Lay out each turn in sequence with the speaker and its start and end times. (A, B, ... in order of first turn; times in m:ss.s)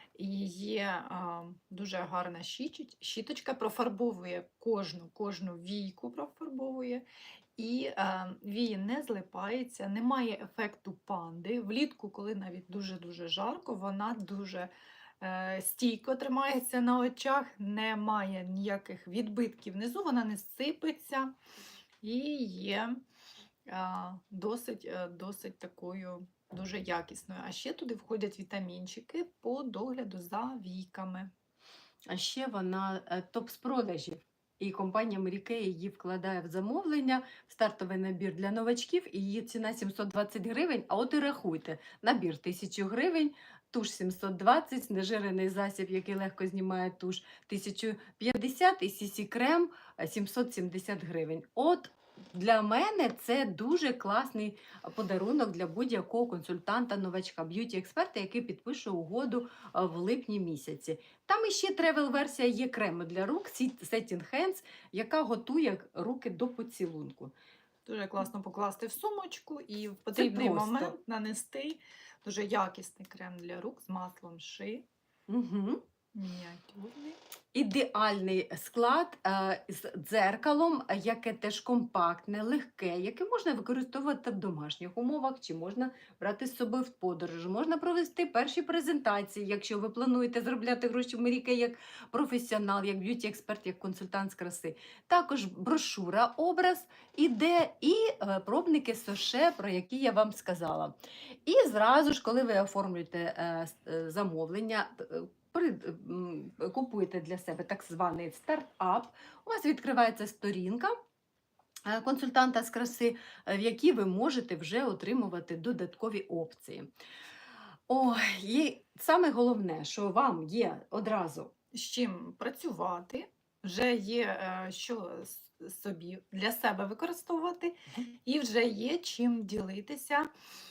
0:00.2-0:07.0 A
0:07.6-0:21.4 A
0:22.0-0:23.0 A
0:23.7-0:31.3 A
0:32.1-1:07.3 B
1:07.9-1:14.9 A
1:10.1-1:11.0 B
1:15.3-1:15.8 B
1:16.1-1:17.2 A
1:17.5-1:41.0 B
1:41.5-1:50.9 B
1:51.9-1:56.9 B
1:57.9-2:01.5 B
2:01.7-2:10.3 A